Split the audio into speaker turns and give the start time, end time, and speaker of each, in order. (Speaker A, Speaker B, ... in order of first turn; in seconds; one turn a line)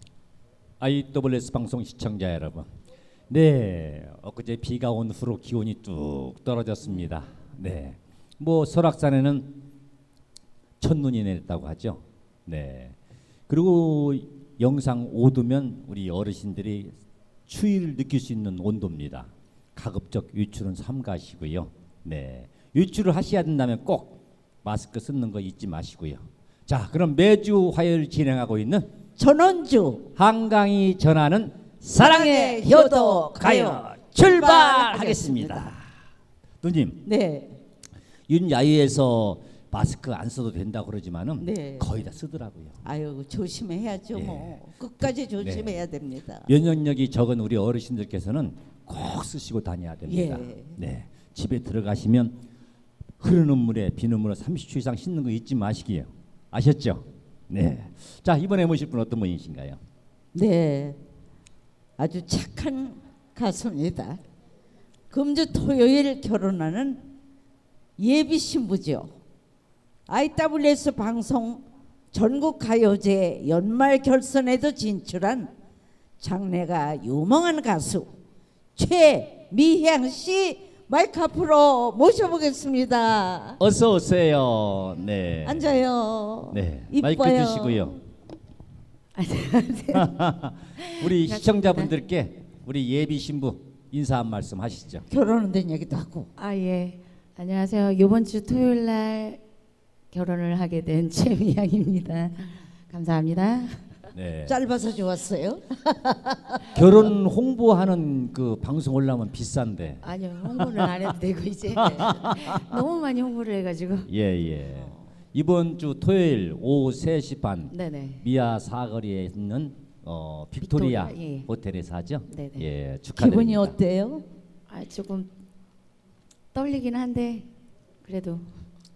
Speaker A: 0.8-2.7
Speaker A: 3.3-9.6
Speaker A: 10.8-13.0
Speaker A: 13.5-28.9
Speaker B: 29.2-30.1
Speaker A: 30.1-35.8
Speaker B: 31.9-35.7
Speaker A: 36.6-37.0
Speaker B: 37.0-37.6
Speaker A: 38.3-42.8
Speaker B: 41.4-41.9
Speaker B: 42.8-46.5
Speaker A: 44.1-44.6
Speaker A: 45.4-45.8
Speaker A: 46.5-52.4
Speaker B: 50.0-50.8
Speaker A: 53.2-59.8
Speaker B: 60.3-61.0
Speaker B: 62.0-64.2
Speaker B: 65.1-67.0
Speaker B: 68.0-69.1
Speaker B: 70.1-75.5
Speaker B: 76.2-78.1
Speaker B: 78.8-83.6
Speaker A: 83.6-85.7
Speaker B: 85.4-88.0
Speaker A: 86.5-88.0
Speaker C: 89.2-90.2
Speaker A: 89.9-95.0
Speaker C: 90.8-91.9
Speaker B: 95.1-96.3
Speaker C: 96.4-99.4
Speaker C: 100.1-103.9
Speaker A: 104.1-104.5
Speaker B: 104.5-106.8
Speaker A: 106.7-110.9
Speaker C: 110.0-114.1
Speaker A: 111.8-112.8
Speaker B: 111.8-112.1
Speaker A: 114.0-123.8
Speaker B: 114.7-115.0
Speaker C: 117.7-118.2
Speaker C: 120.6-121.5
Speaker C: 122.3-122.7
Speaker B: 123.2-124.2
Speaker C: 124.7-125.3
Speaker C: 126.5-127.5
Speaker C: 128.0-128.5